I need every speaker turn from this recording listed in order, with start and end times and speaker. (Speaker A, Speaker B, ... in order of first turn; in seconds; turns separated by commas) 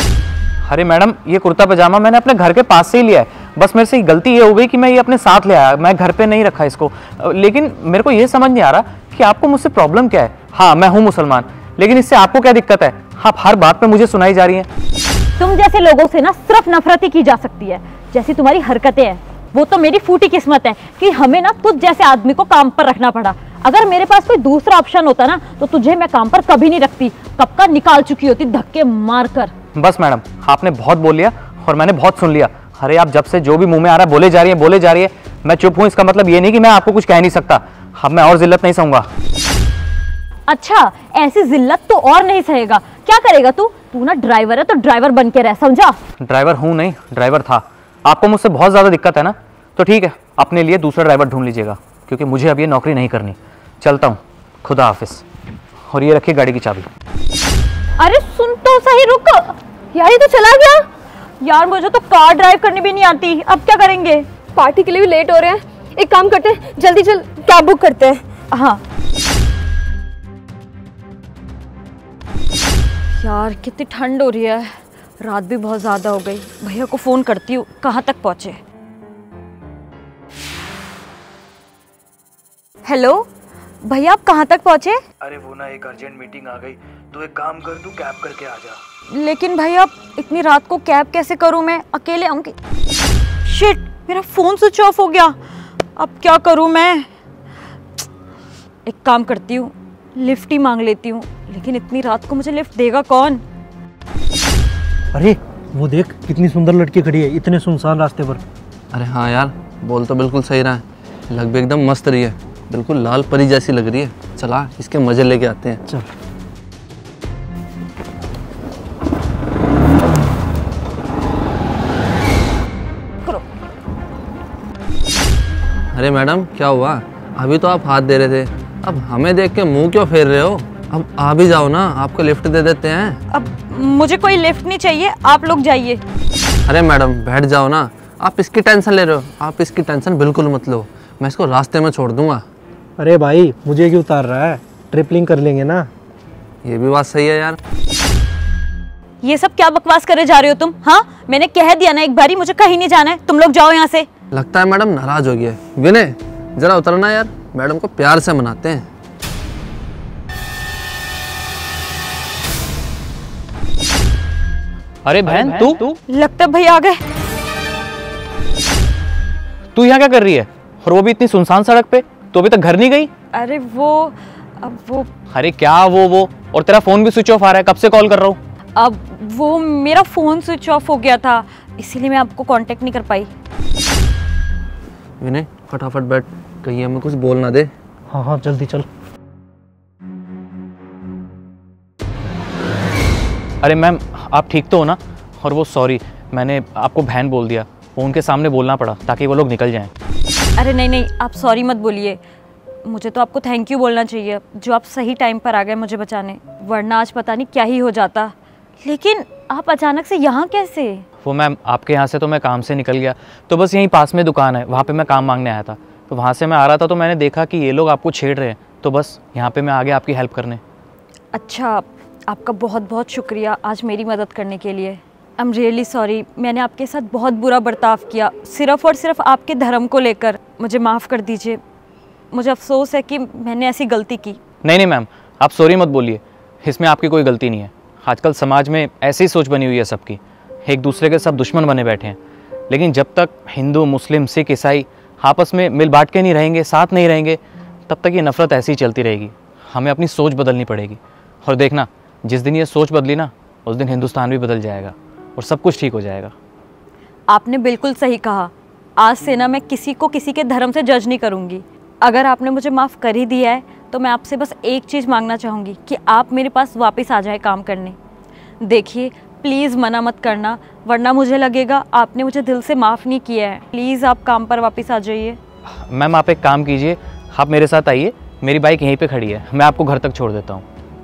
Speaker A: 0.6-14.7, Speaker B: 15.4-29.5, Speaker A: 29.7-39.1, Speaker B: 40.5-46.0, Speaker A: 46.2-55.2, Speaker A: 55.9-56.9, Speaker B: 58.0-59.6, Speaker C: 60.0-60.8, Speaker B: 61.4-64.2, Speaker C: 64.6-68.2, Speaker B: 68.5-68.8, Speaker B: 73.2-78.6, Speaker B: 82.8-83.3, Speaker B: 83.8-85.0, Speaker D: 85.2-88.8, Speaker B: 89.1-92.5, Speaker B: 93.4-95.3, Speaker B: 96.0-97.1, Speaker B: 98.8-103.4, Speaker E: 105.1-108.4, Speaker F: 108.9-115.8, Speaker F: 125.9-133.2, Speaker B: 133.3-136.0, Speaker F: 136.7-142.4, Speaker E: 143.0-145.9, Speaker F: 146.6-147.6, Speaker B: 149.2-154.1, Speaker F: 154.3-158.8, Speaker A: 165.0-165.9, Speaker B: 166.1-167.0, Speaker A: 169.7-173.1, Speaker B: 173.3-175.1, Speaker A: 175.3-178.4, Speaker B: 178.8-183.3, Speaker F: 185.2-187.7, Speaker E: 188.1-188.9, Speaker A: 193.6-199.9, Speaker B: 200.6-202.2, Speaker B: 202.8-211.0, Speaker A: 211.2-220.6, Speaker B: 221.3-231.6, Speaker B: 232.3-234.4, Speaker A: 234.6-242.2, Speaker A: 242.7-256.3, Speaker B: 257.3-268.0, Speaker B: 268.6-275.4, Speaker A: 275.8-280.6